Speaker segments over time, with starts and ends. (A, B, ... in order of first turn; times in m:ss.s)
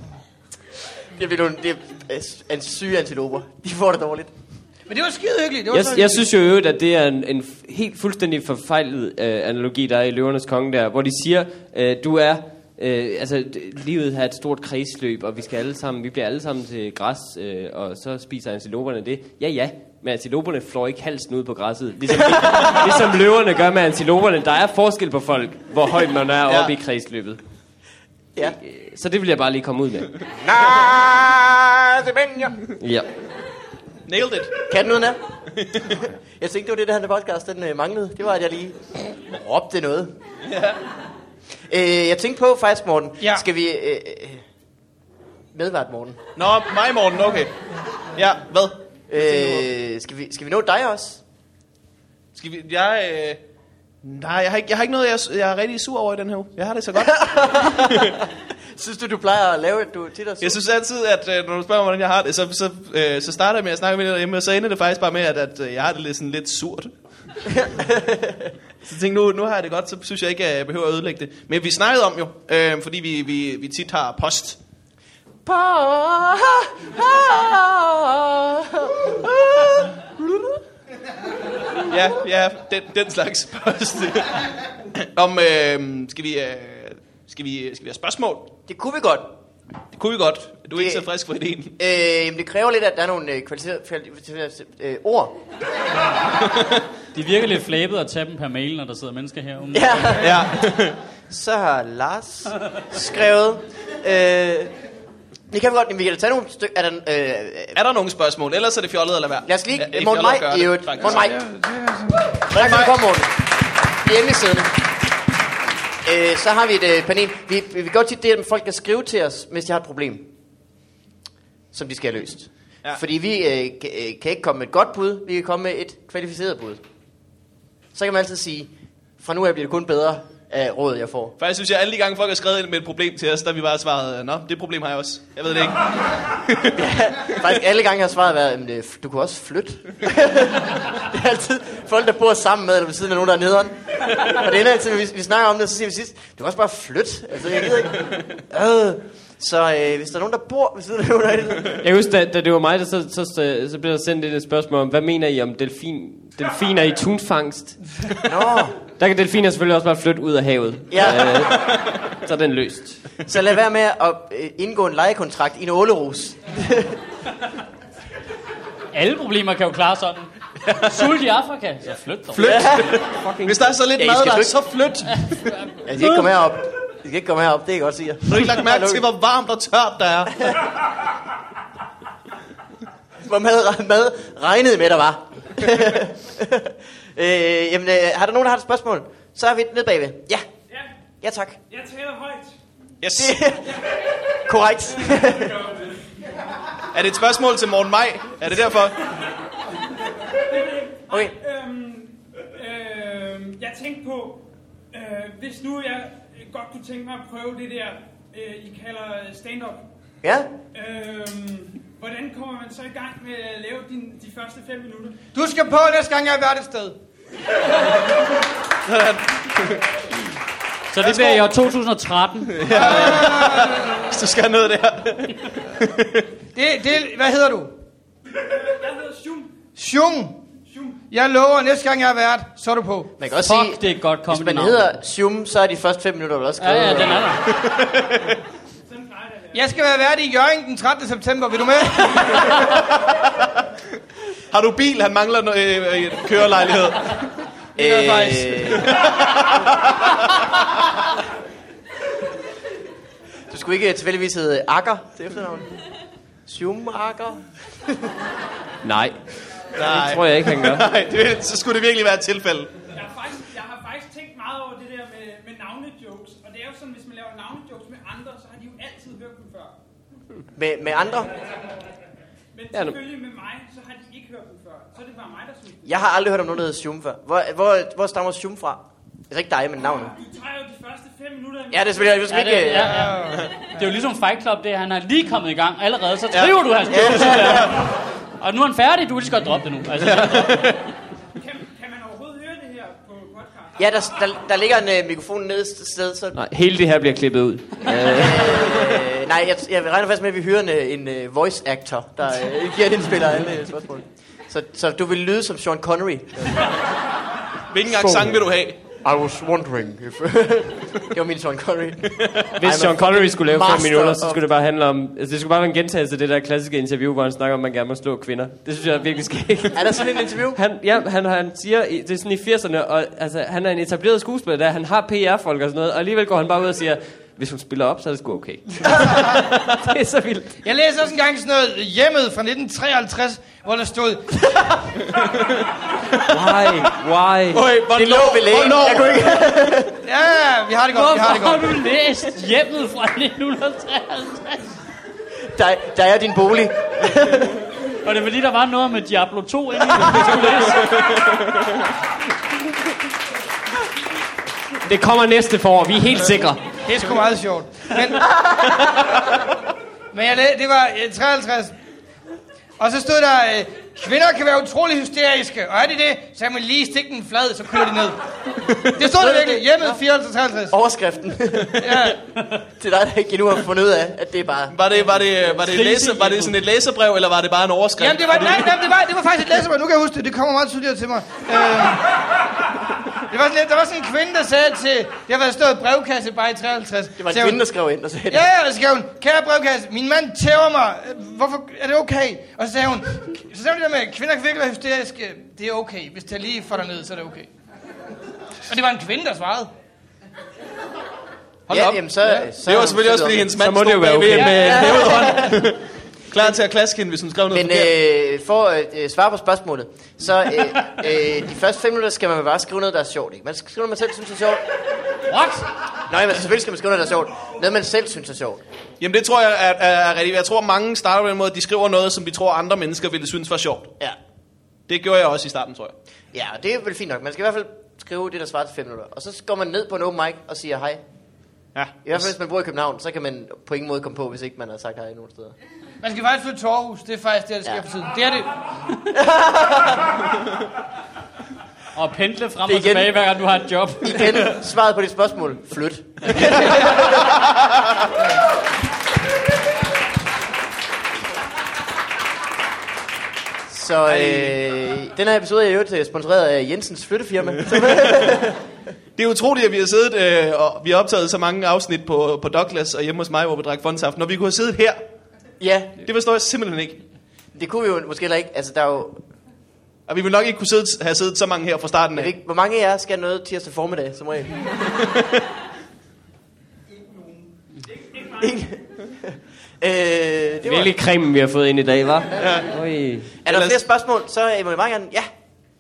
0:01.1-0:04.3 A
0:04.9-0:06.3 B
0:05.7-0:27.4 C
0:22.1-0:23.0 A
0:26.5-0:26.7 D
0:28.6-0:30.1 C
0:30.4-0:32.7 A
0:32.8-0:33.1 C
0:34.1-0:34.6 D
0:34.7-0:35.2 A
0:35.6-0:36.0 D
0:35.9-0:40.1 A
0:40.5-0:40.8 D
0:41.7-0:44.4 A
0:45.5-0:46.2 A
0:46.4-0:49.7 D
0:49.1-0:51.2 A
0:52.3-0:53.4 D
0:54.0-0:58.2 D
0:56.9-1:00.6 A
1:00.4-1:06.9 D
1:07.5-1:08.5 A
1:08.8-1:14.6 D
1:15.4-1:20.6 A
1:21.9-1:28.5 D
1:28.7-1:29.4 A
1:29.9-1:31.8 D
1:30.7-1:31.1 A
1:31.8-1:35.4 A
1:37.1-1:40.2 E
1:39.7-1:40.5 A
1:40.2-1:41.0 D
1:41.3-1:44.7 A
1:45.5-1:47.8 A
1:47.7-1:51.3 D
1:49.5-1:51.4 A
1:51.1-1:52.3 B
1:52.3-1:53.4 A
1:52.5-1:53.0 D
1:53.9-1:54.8 A
1:56.0-2:00.3 A
2:01.7-2:06.8 A
2:07.9-2:11.4 A
2:11.4-2:16.8 D
2:16.7-2:31.8 A
2:31.8-2:37.8 C
2:38.2-2:38.8 A
2:39.0-2:43.0 C
2:40.9-2:41.6 A
2:43.2-2:47.0 A
2:48.9-2:52.8 E
2:52.3-2:55.5 D
2:52.4-2:53.1 A
2:53.2-2:53.7 C
2:54.0-2:54.6 A
2:55.8-2:59.0 A
2:56.0-2:56.3 E
2:58.3-3:00.6 D
3:03.2-3:10.4 A
3:11.2-3:11.6 A
3:11.7-3:12.6 F
3:13.0-3:13.5 D
3:13.2-3:13.7 A
3:13.7-3:15.9 F
3:14.4-3:15.6 A
3:16.9-3:19.0 D
3:20.3-3:29.9 F
3:30.2-3:30.5 A
3:30.7-3:35.2 F
3:35.3-3:37.0 B
3:38.9-3:39.8 D
3:40.9-3:42.9 E
3:41.0-3:41.4 D
3:42.5-3:46.3 D
3:42.7-3:44.2 B
3:46.6-3:47.7 B
3:48.5-3:49.6 F
3:49.8-3:50.4 B
3:50.6-3:51.1 F
3:51.1-3:53.1 B
3:53.2-3:57.4 A
3:53.4-3:55.0 E
3:56.6-3:57.5 E
3:57.5-3:58.3 D
3:58.8-3:59.9 F
3:59.5-4:02.7 B
4:04.5-4:07.3 D
4:07.8-4:08.8 B
4:07.8-4:09.2 A
4:08.8-4:09.7 D
4:13.5-4:15.7 A
4:16.5-4:18.1 A
4:18.8-4:19.2 C
4:19.8-4:22.7 D
4:19.8-4:20.9 C
4:22.9-4:29.8 F
4:30.6-4:31.3 A
4:32.5-4:35.9 F
4:32.7-4:33.0 C
4:35.8-4:40.2 A
4:40.1-4:43.3 F
4:41.7-4:42.9 A
4:42.3-4:50.8 E
4:42.9-4:43.8 B
4:46.9-4:47.8 A
4:50.0-4:50.8 D
4:51.4-4:53.9 F
4:53.8-4:56.4 A
4:56.4-4:59.0 C
4:58.0-5:06.7 A
5:07.7-5:08.8 D
5:09.0-5:14.4 A
5:12.2-5:12.4 D
5:12.6-5:30.6 C
5:19.7-5:20.6 A
5:29.0-5:29.4 B
5:30.6-5:34.4 B
5:36.3-5:37.6 C
5:37.5-5:39.5 D
5:37.9-5:40.0 A
5:40.0-5:41.8 B
5:40.9-5:44.7 E
5:45.5-5:47.6 A
5:48.0-5:51.2 E
5:50.9-5:51.4 D
5:54.8-5:56.6 C
5:56.8-5:58.4 B
6:00.1-6:01.8 B
6:02.8-6:08.2 B
6:08.9-6:10.7 B
6:09.0-6:10.0 A
6:10.7-6:12.1 A
6:11.8-6:12.2 B
6:12.7-6:14.8 A
6:14.7-6:18.9 D
6:15.5-6:16.6 E
6:18.0-6:22.2 B
6:23.3-6:27.6 B
6:27.2-6:28.4 A
6:28.3-6:37.5 B
6:38.7-6:39.7 B
6:41.7-6:43.5 A
6:41.7-6:47.9 D
6:43.6-6:45.4 C
6:44.3-6:44.8 B
6:44.6-6:45.6 A
6:47.5-6:54.6 A
6:55.3-6:55.7 E
6:56.1-6:58.6 A
6:59.0-7:03.9 D
7:04.9-7:05.9 D
7:06.3-7:11.0 A
7:11.8-7:12.3 D
7:12.0-7:15.6 A
7:16.0-7:18.5 B
7:19.1-7:20.2 A
7:22.0-7:24.5 E
7:22.7-7:23.2 A
7:24.0-7:27.3 A
7:26.2-7:26.6 E
7:26.7-7:27.5 D
7:33.7-7:38.6 A
7:34.1-7:34.6 D
7:37.8-7:38.3 D
7:39.2-7:45.0 D
7:45.6-7:45.9 A
7:46.0-7:47.0 D
7:47.6-7:49.2 A
7:50.1-7:52.3 D
7:52.2-7:55.1 A
7:58.2-7:58.5 F
7:58.3-8:01.0 A
8:00.6-8:03.4 C
8:02.4-8:02.7 D
8:03.4-8:05.3 A
8:03.5-8:03.8 D